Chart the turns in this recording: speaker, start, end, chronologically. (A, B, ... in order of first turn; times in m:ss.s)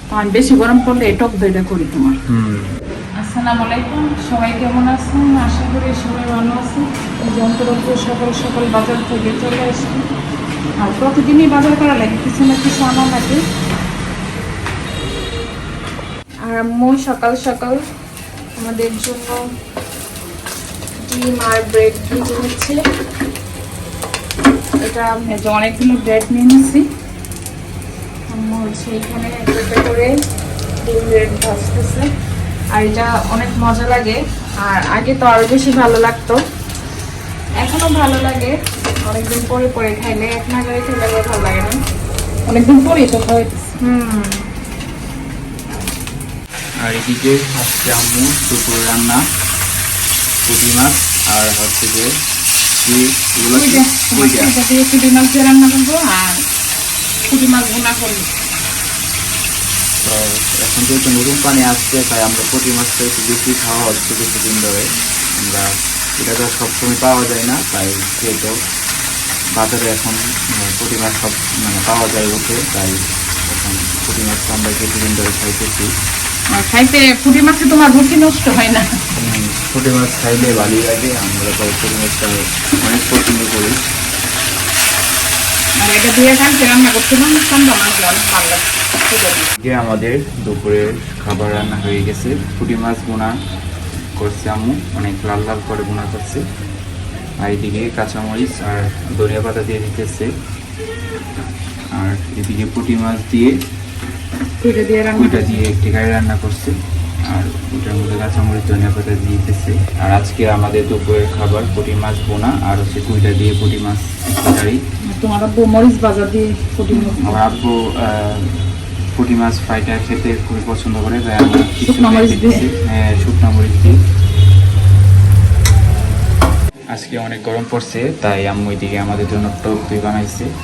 0:00.1-0:02.2 A
0:02.3-0:02.8 B
0:03.2-0:10.0 A
0:10.8-0:13.4 A
0:16.4-0:17.8 C
0:18.6-0:19.4 C
0:21.0-0:22.8 C
0:24.8-0:25.3 C
0:25.3-0:26.8 A
0:28.3-0:30.1 C
0:30.8-0:32.1 C
0:32.7-0:36.4 C
0:37.6-0:38.5 C
0:39.0-0:41.8 C
0:42.4-0:43.7 A
0:43.8-0:44.5 C
0:46.8-0:49.2 B
0:50.4-0:52.1 B
0:52.8-0:54.5 B
0:53.5-0:56.4 A
0:57.3-0:58.3 A
1:00.0-1:08.5 B
1:09.6-1:15.9 B
1:16.5-1:18.8 A
1:19.2-1:23.8 B
1:25.8-1:29.5 A
1:29.6-1:33.3 B
1:34.2-1:36.4 B
1:37.4-1:40.3 B
1:41.9-1:43.6 B
1:44.6-1:45.6 A
1:45.1-1:54.8 B
1:55.1-1:57.4 A
1:56.9-1:58.6 B
1:59.1-2:04.0 B
2:01.8-2:02.6 A
2:06.9-2:10.5 B